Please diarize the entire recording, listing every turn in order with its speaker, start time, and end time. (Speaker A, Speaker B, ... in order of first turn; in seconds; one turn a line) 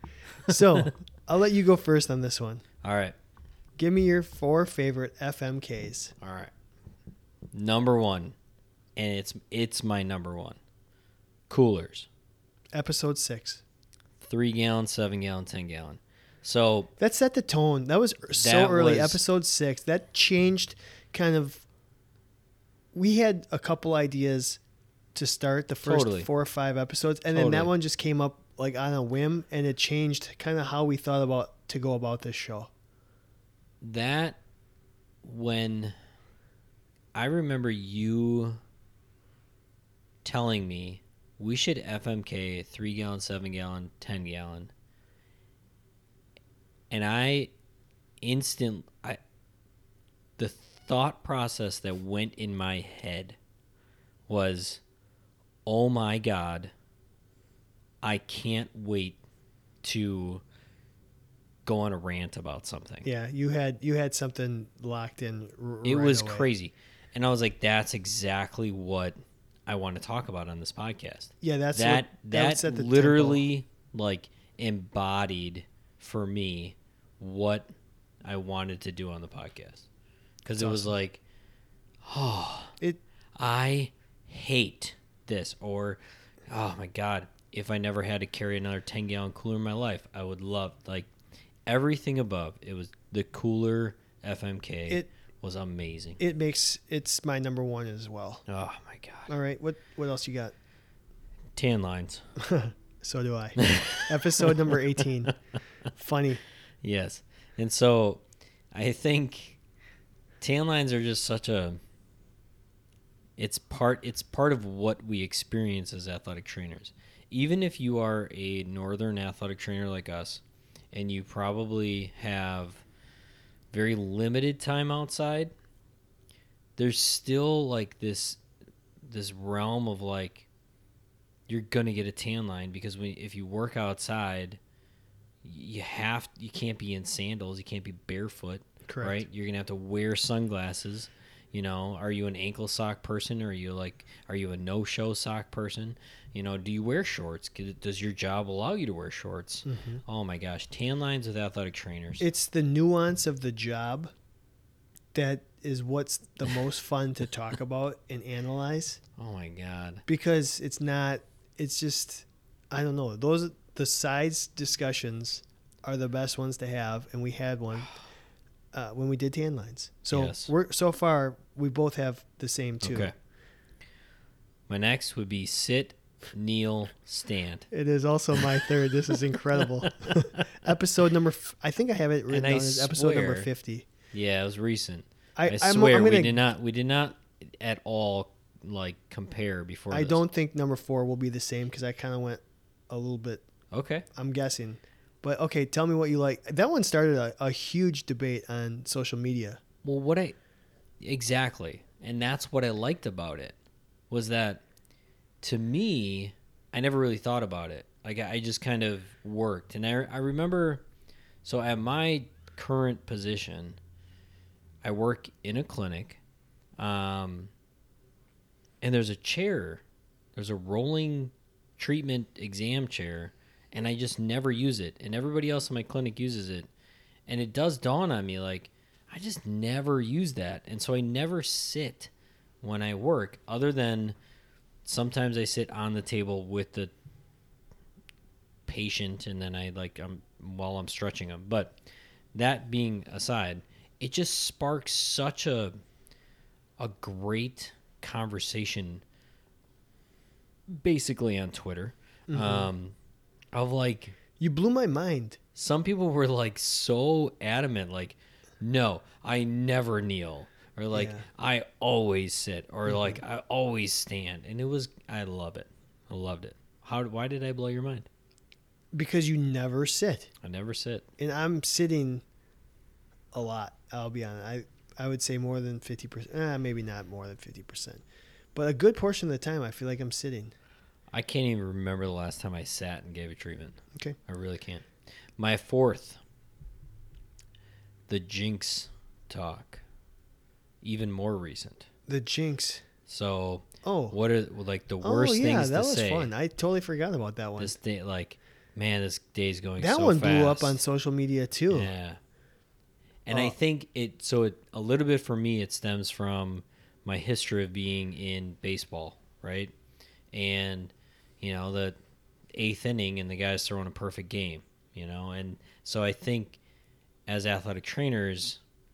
Speaker A: 0.5-2.6
Speaker B: 2.8-3.1
Speaker A: 3.8-6.1
Speaker B: 6.2-6.5
Speaker B: 7.5-8.3
Speaker B: 8.9-10.6
Speaker B: 11.5-12.1
Speaker A: 12.7-13.6
Speaker B: 14.2-16.9
Speaker A: 17.0-21.6
Speaker B: 18.4-19.2
Speaker A: 22.9-24.6
Speaker A: 25.1-32.7
Speaker B: 25.8-26.3
Speaker B: 27.3-27.7
Speaker B: 33.8-34.4
Speaker B: 35.2-35.9
Speaker B: 37.1-38.6
Speaker B: 40.2-44.7
Speaker B: 46.9-47.5
Speaker B: 48.2-49.2
Speaker B: 50.4-53.4
Speaker B: 54.3-54.8
Speaker B: 55.6-56.7
Speaker B: 58.0-59.2
Speaker B: 59.8-60.4
Speaker B: 61.6-63.1
Speaker A: 63.0-66.5
Speaker B: 65.8-77.7
Speaker A: 71.4-73.4
Speaker B: 78.2-79.8
Speaker B: 80.4-81.2
Speaker A: 80.6-80.9
Speaker B: 82.0-82.8
Speaker B: 83.4-91.1
Speaker B: 91.7-96.2
Speaker A: 96.2-98.4
Speaker B: 98.5-99.3
Speaker A: 99.3-100.5
Speaker B: 101.5-102.2
Speaker A: 102.4-105.3
Speaker B: 103.6-105.3
Speaker A: 106.0-106.4
Speaker B: 106.8-109.6
Speaker B: 110.4-111.8
Speaker B: 113.4-122.8
Speaker B: 123.7-125.5
Speaker B: 126.8-128.4
Speaker B: 129.0-130.4
Speaker B: 131.5-134.6
Speaker B: 135.4-152.2
Speaker A: 138.8-139.2
Speaker A: 149.7-150.0
Speaker A: 152.2-154.1
Speaker A: 155.1-159.0
Speaker B: 159.2-160.0
Speaker A: 160.1-167.9
Speaker A: 168.7-173.1
Speaker B: 170.1-170.5
Speaker B: 172.8-173.1
Speaker B: 174.7-177.7
Speaker A: 177.7-183.9
Speaker B: 179.1-180.4
Speaker B: 182.3-183.5
Speaker B: 184.1-190.2
Speaker A: 185.4-186.4
Speaker A: 189.9-193.4
Speaker B: 193.7-194.1
Speaker A: 194.1-199.6
Speaker B: 199.8-200.3
Speaker B: 201.0-203.6
Speaker B: 204.1-204.6
Speaker B: 205.4-210.8
Speaker B: 211.4-213.8
Speaker B: 214.8-216.2
Speaker B: 216.8-217.5
Speaker B: 218.8-219.8
Speaker B: 220.3-226.7
Speaker B: 227.3-232.1
Speaker B: 232.6-234.2
Speaker B: 234.8-236.9
Speaker B: 238.7-241.8
Speaker B: 242.3-245.8
Speaker B: 246.8-249.0
Speaker B: 250.7-252.9
Speaker A: 252.3-252.7
Speaker B: 253.5-254.2
Speaker A: 254.4-255.4
Speaker B: 255.5-268.1
Speaker A: 260.9-261.2
Speaker A: 262.9-263.2
Speaker A: 268.9-270.3
Speaker B: 270.4-271.1
Speaker A: 271.2-272.2
Speaker A: 273.3-278.0
Speaker A: 278.5-280.5
Speaker B: 281.1-284.9
Speaker B: 285.4-286.2
Speaker B: 288.1-289.8
Speaker B: 290.8-291.9
Speaker A: 292.1-292.8
Speaker B: 293.1-296.3
Speaker A: 293.8-294.1
Speaker A: 295.0-297.7
Speaker B: 297.6-300.8
Speaker A: 299.8-301.9
Speaker B: 301.7-302.2
Speaker B: 303.2-309.7
Speaker B: 310.3-312.0
Speaker B: 312.5-316.6
Speaker B: 317.3-318.6